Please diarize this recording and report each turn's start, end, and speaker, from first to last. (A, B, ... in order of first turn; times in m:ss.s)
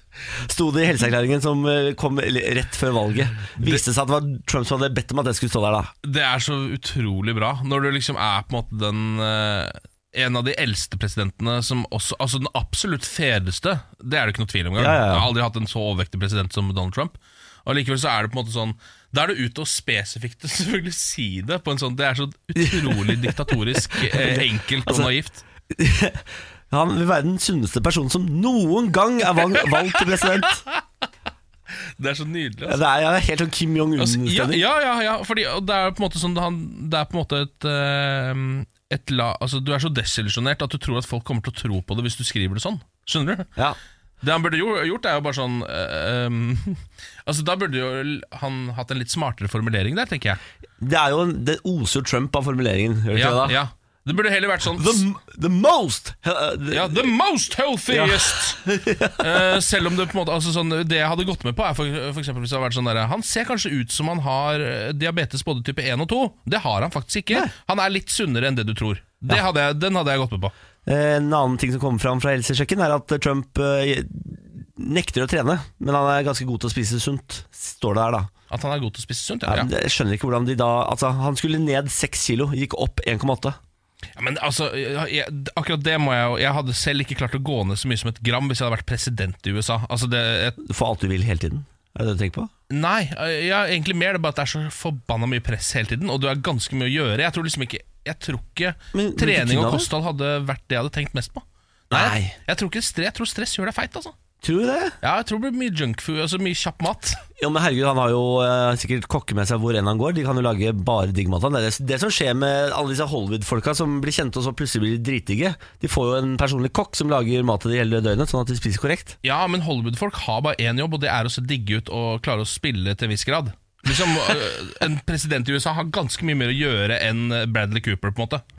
0:00.5-0:05.9 A
0:06.0-0:25.4 B
0:14.8-0:15.3 A
0:22.6-0:23.3 A
0:23.9-0:25.1 A
0:25.7-0:30.6 A
0:30.4-0:30.8 B
0:31.9-0:32.8 B
0:32.7-0:34.6 A
0:34.0-0:43.5 B
0:44.2-0:50.4 B
0:50.8-0:53.6 A
0:53.1-0:55.0 B
0:54.8-0:57.1 A
0:56.7-0:58.6 B
0:57.9-0:59.2 A
0:59.2-1:10.5 B
1:10.9-1:18.3 A
1:18.5-1:19.7 B
1:19.5-1:23.6 A
1:24.2-1:30.6 B
1:30.6-1:32.5 A
1:32.7-1:44.1 B
1:38.9-1:39.9 A
1:41.9-1:42.4 A
1:44.4-1:45.0 A
1:45.0-1:47.2 B
1:47.4-1:59.2 A
1:59.2-2:08.4 B